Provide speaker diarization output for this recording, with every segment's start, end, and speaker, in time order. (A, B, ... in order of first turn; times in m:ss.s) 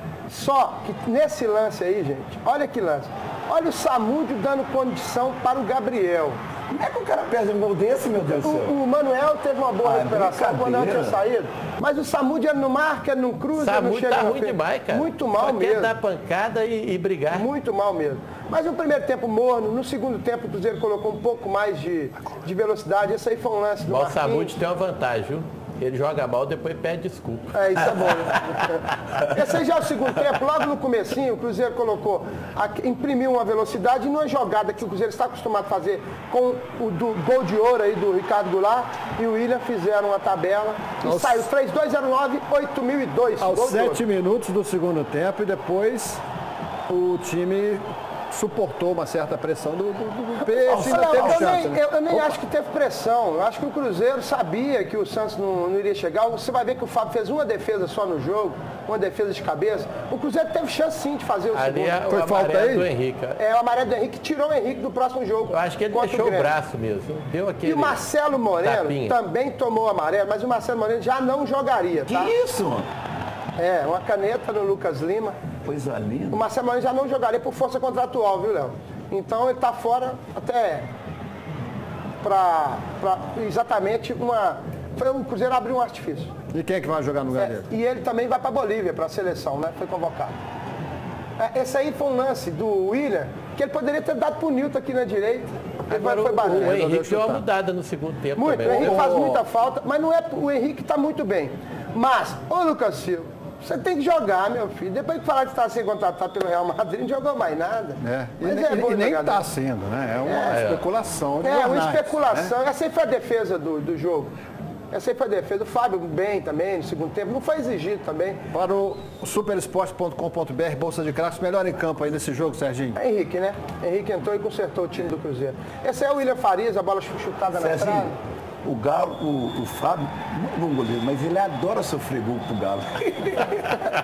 0:00.3-0:06.4 A
0:06.7-0:08.8 B
0:08.4-0:15.9 A
0:09.8-0:11.2 B
0:13.6-0:17.5 C
0:17.3-0:24.5 A
0:23.8-0:29.3 C
0:27.5-0:44.0 A
0:41.0-0:41.4 D
0:43.4-0:46.2 D
0:46.9-0:52.3 D
0:50.6-0:51.7 B
0:50.7-1:02.0 A
1:01.5-1:03.4 C
1:02.1-1:02.9 D
1:03.4-1:06.5 A
1:05.5-1:08.0 C
1:07.6-1:12.4 A
1:08.6-1:09.2 C
1:12.1-1:12.9 B
1:13.6-1:15.4 A
1:15.6-1:16.4 B
1:16.3-1:20.9 A
1:22.2-1:26.3 A
1:26.5-1:27.7 D
1:27.3-1:30.3 A
1:31.4-1:37.0 A
1:35.9-1:39.4 C
1:36.6-1:37.4 D
1:38.4-1:49.4 A
1:38.7-1:39.3 D
1:48.0-1:52.5 D
1:50.2-1:50.8 A
1:50.5-1:50.8 C
1:51.4-1:54.3 A
1:54.9-1:58.4 A
1:58.5-2:03.0 D
2:03.0-2:08.2 A
2:07.5-2:08.1 B
2:08.6-2:13.8 B